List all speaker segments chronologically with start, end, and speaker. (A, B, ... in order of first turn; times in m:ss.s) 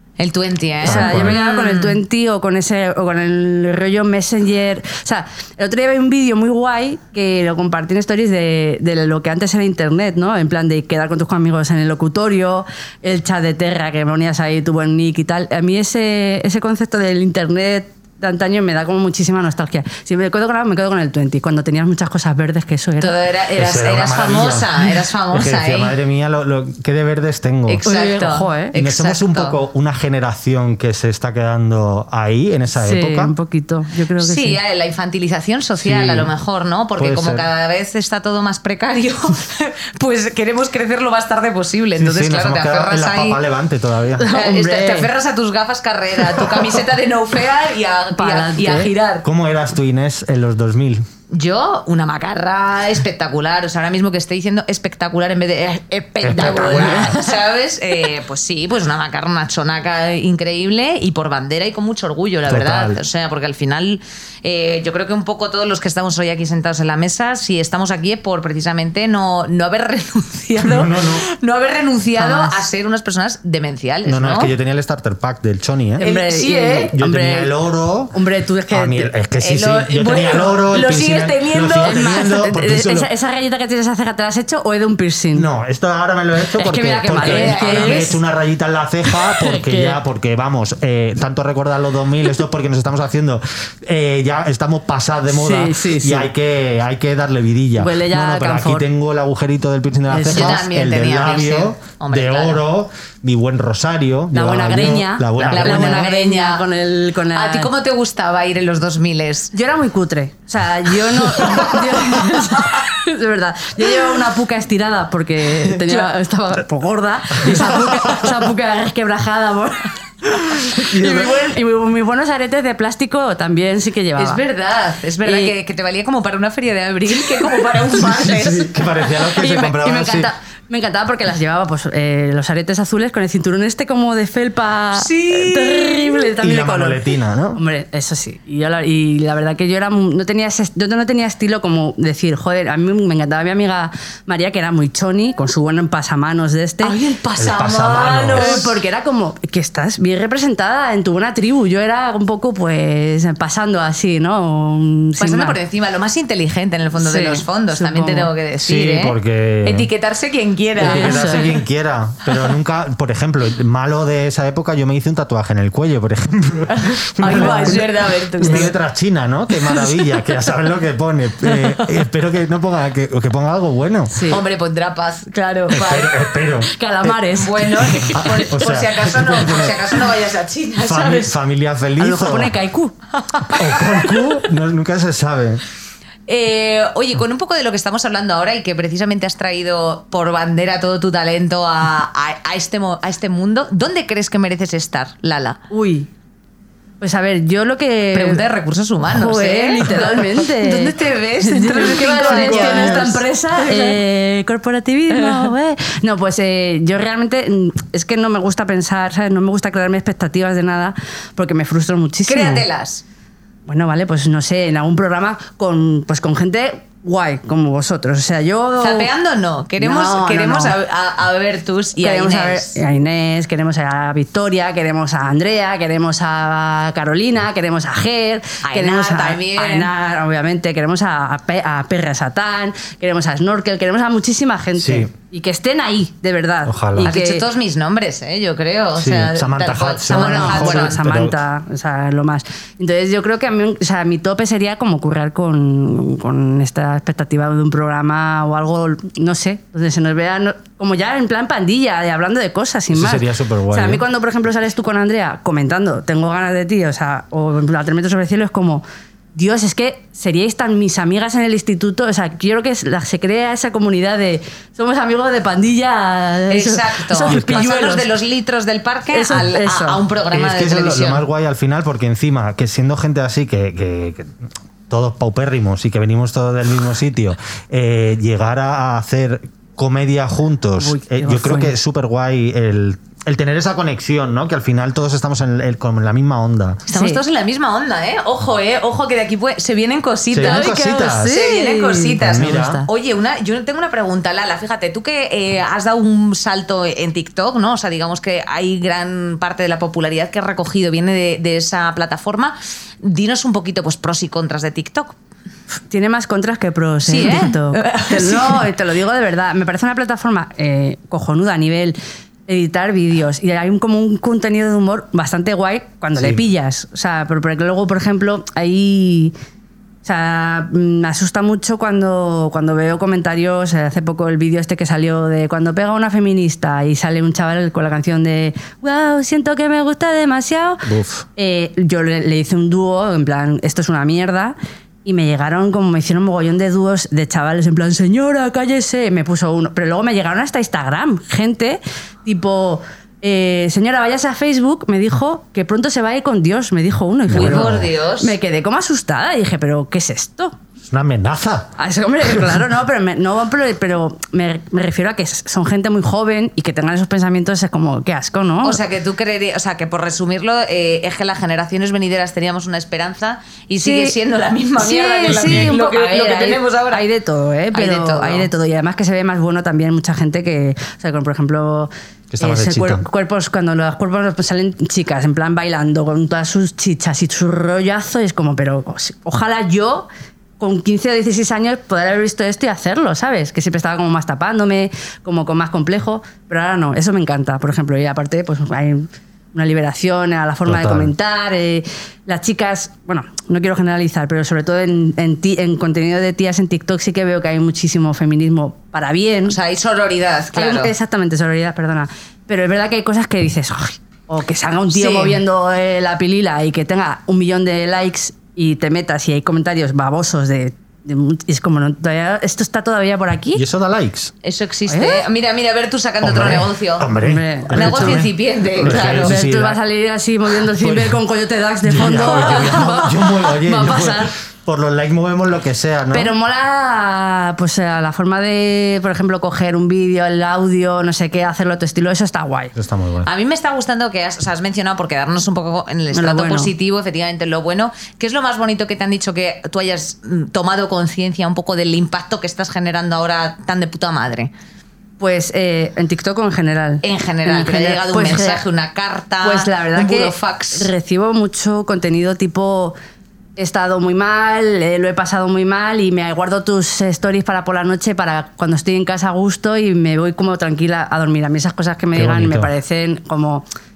0:00.2-0:02.0 A
0:00.8-0:01.4 B
0:00.8-0:23.1 C
0:23.0-0:25.9 A
0:23.5-0:27.8 B
0:27.7-0:29.6 A
0:27.8-0:28.7 C
0:28.7-0:33.3 B
0:32.8-0:34.6 C
0:34.2-0:43.4 A
0:35.8-0:36.3 B
0:37.0-0:37.4 B
0:42.0-0:44.2 B
0:44.2-0:45.1 C
0:44.3-0:49.2 A
0:48.2-0:48.9 C
0:49.2-0:51.0 B
0:51.3-1:14.5 A
0:56.2-0:57.2 B
0:56.5-0:57.2 C
1:02.5-1:03.0 B
1:10.6-1:11.2 B
1:12.2-1:12.6 C
1:14.0-1:16.0 B
1:16.0-1:17.5 C
1:16.0-1:16.9 A
1:16.9-1:18.2 B
1:18.1-1:19.1 C
1:18.7-1:23.1 B
1:19.4-1:22.2 A
1:21.8-1:25.5 C
1:25.3-1:46.0 B
1:26.5-1:28.2 C
1:27.2-1:28.2 A
1:29.1-1:30.0 C
1:35.3-1:36.3 C
1:37.8-1:38.9 C
1:40.1-1:40.6 C
1:40.3-1:42.6 A
1:44.3-1:47.7 C
1:45.4-1:46.7 A
1:47.3-1:49.5 A
1:49.5-2:04.4 C
1:55.7-1:56.1 A
1:57.5-1:58.3 B
2:00.8-2:01.3 B
2:04.2-2:09.4 A
2:05.2-2:05.5 C
2:07.9-2:10.3 B
2:09.4-2:17.0 C
2:14.9-2:16.3 A
2:16.4-2:17.6 B
2:17.5-2:27.0 C
2:26.8-2:28.7 A
2:27.4-2:28.7 B
2:28.2-2:35.6 C
2:35.2-2:41.5 A
2:37.0-2:38.3 C
2:38.6-2:39.9 B
2:40.8-2:54.2 B
2:40.8-2:41.5 C
2:47.2-2:47.9 C
2:47.2-2:48.7 A
2:48.4-2:48.7 C
2:49.7-2:50.1 C
2:51.5-2:51.9 C
2:54.1-2:54.4 C
2:54.3-2:56.2 A
2:55.7-2:57.1 B
2:56.6-2:58.7 C
2:57.3-3:01.3 A
2:58.0-3:00.0 B
3:00.8-3:02.5 B
3:02.0-3:02.9 C
3:03.3-3:04.0 A
3:03.5-3:05.6 B
3:06.3-3:15.6 A
3:15.7-3:16.1 C
3:17.0-3:18.4 C
3:18.1-3:24.0 A
3:19.1-3:32.6 C
3:22.2-3:23.2 B
3:25.2-3:25.5 A
3:32.3-3:33.0 A
3:33.6-3:39.1 C
3:38.8-3:42.8 A
3:39.8-3:40.8 C
3:42.0-3:57.4 C
3:48.6-3:49.9 A
3:54.8-3:55.1 B
3:56.6-3:57.1 B
3:57.0-4:01.0 A
3:59.0-4:01.4 B
4:00.1-4:18.8 C
4:12.9-4:14.0 B
4:19.3-4:28.1 C
4:26.5-4:31.2 A
4:27.3-4:27.6 B
4:29.1-4:30.0 C
4:30.3-4:46.8 B
4:40.8-4:41.7 C
4:46.9-4:47.2 C
4:46.9-5:05.1 A
4:50.3-4:51.4 B
4:50.4-4:52.9 C
4:52.2-4:52.8 B
5:05.9-5:12.0 C
5:07.1-5:08.7 A
5:12.5-5:19.3 C
5:16.2-5:16.4 B
5:20.0-5:50.5 C
5:30.8-5:31.2 B
5:47.3-5:47.9 B
5:47.3-5:48.4 A
5:50.8-5:51.7 B
5:51.8-5:58.8 C
5:52.2-5:52.6 B
5:58.6-6:07.0 A
6:03.8-6:04.2 C
6:04.8-6:20.1 C
6:05.3-6:05.7 B
6:07.7-6:08.5 A
6:12.3-6:13.0 B
6:20.6-6:39.6 C
6:30.6-6:31.1 B
6:39.5-6:40.9 A
6:40.5-6:53.6 C
6:44.9-6:45.4 A
6:53.5-6:54.3 B
6:54.4-6:57.1 A
6:54.9-6:55.2 C
6:56.2-6:59.8 B
6:57.2-6:58.3 C
6:57.7-6:59.4 A
6:58.8-7:04.3 C
7:00.7-7:01.2 B
7:01.8-7:06.3 B
7:06.1-7:12.7 C
7:12.8-7:13.3 B
7:13.2-7:24.5 A
7:16.1-7:16.7 C
7:25.2-7:28.6 C
7:27.0-7:30.9 A
7:29.4-7:32.9 C
7:33.6-7:43.6 C
7:42.1-7:42.7 B